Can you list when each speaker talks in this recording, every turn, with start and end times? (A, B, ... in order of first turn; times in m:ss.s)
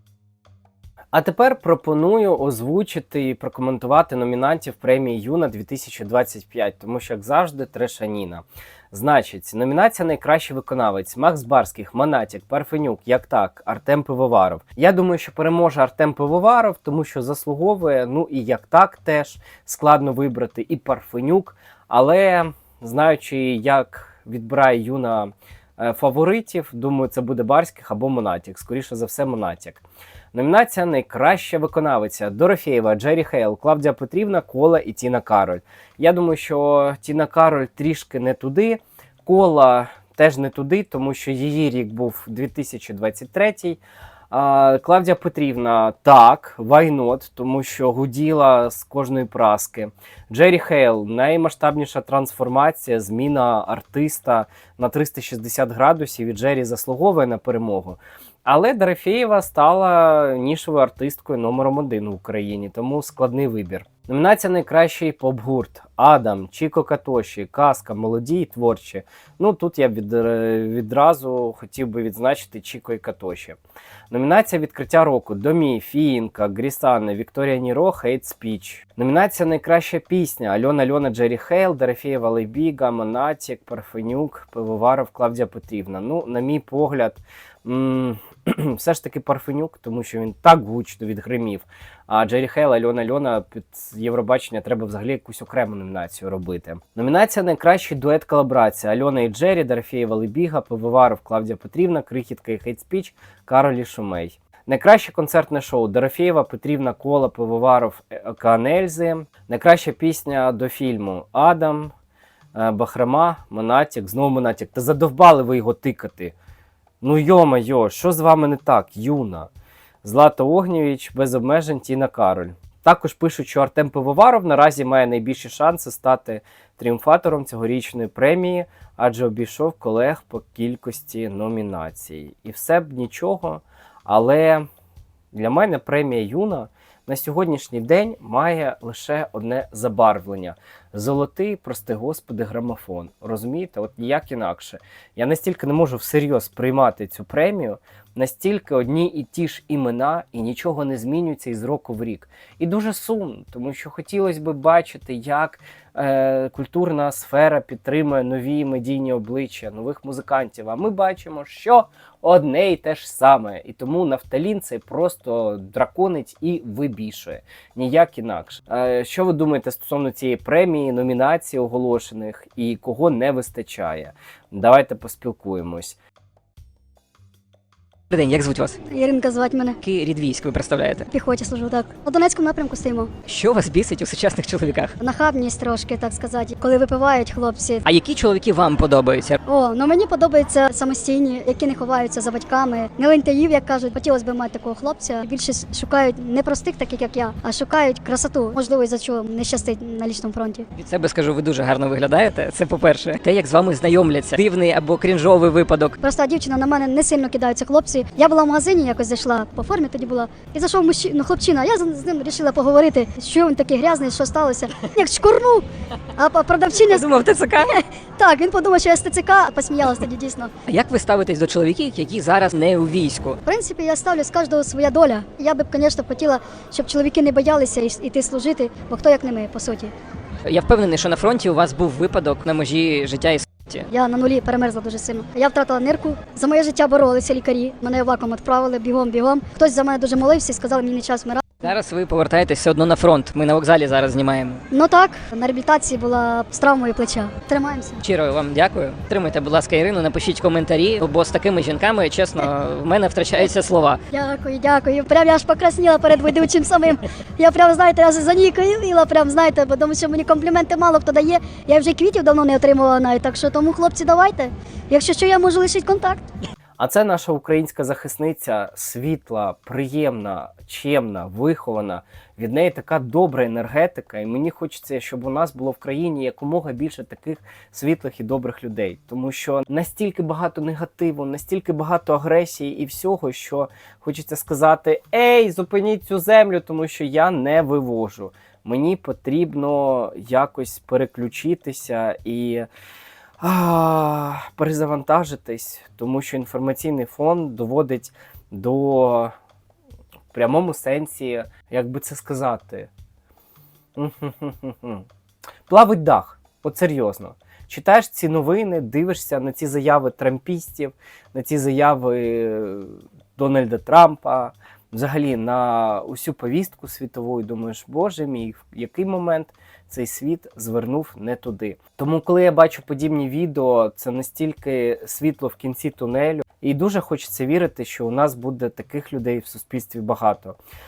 0:01.1-1:13.6 A
1:14.1-1:51.9 A
1:52.5-1:56.3 A
1:57.0-1:59.5 A
2:00.0-2:14.7 A
2:15.3-2:56.0 A
2:58.1-2:58.8 B
2:58.9-2:59.8 C
2:59.8-3:01.1 B
3:01.1-3:03.1 C
3:03.3-3:04.9 B
3:05.0-3:07.8 C
3:07.8-3:09.4 B
3:09.5-3:20.7 C
3:20.8-3:26.0 B
3:26.0-3:37.1 C
3:36.8-3:37.8 B
3:37.7-3:40.5 C
3:40.7-3:43.4 B
3:43.4-3:49.9 C
3:50.5-3:53.9 B
3:53.9-4:01.4 C
4:01.6-4:04.6 B
4:04.7-4:08.0 C
4:08.0-4:14.0 B
4:14.1-4:26.2 C
4:26.8-4:52.7 A
4:53.4-4:59.3 A
5:00.3-5:02.9 A
5:04.0-5:05.1 A
5:05.7-5:30.6 A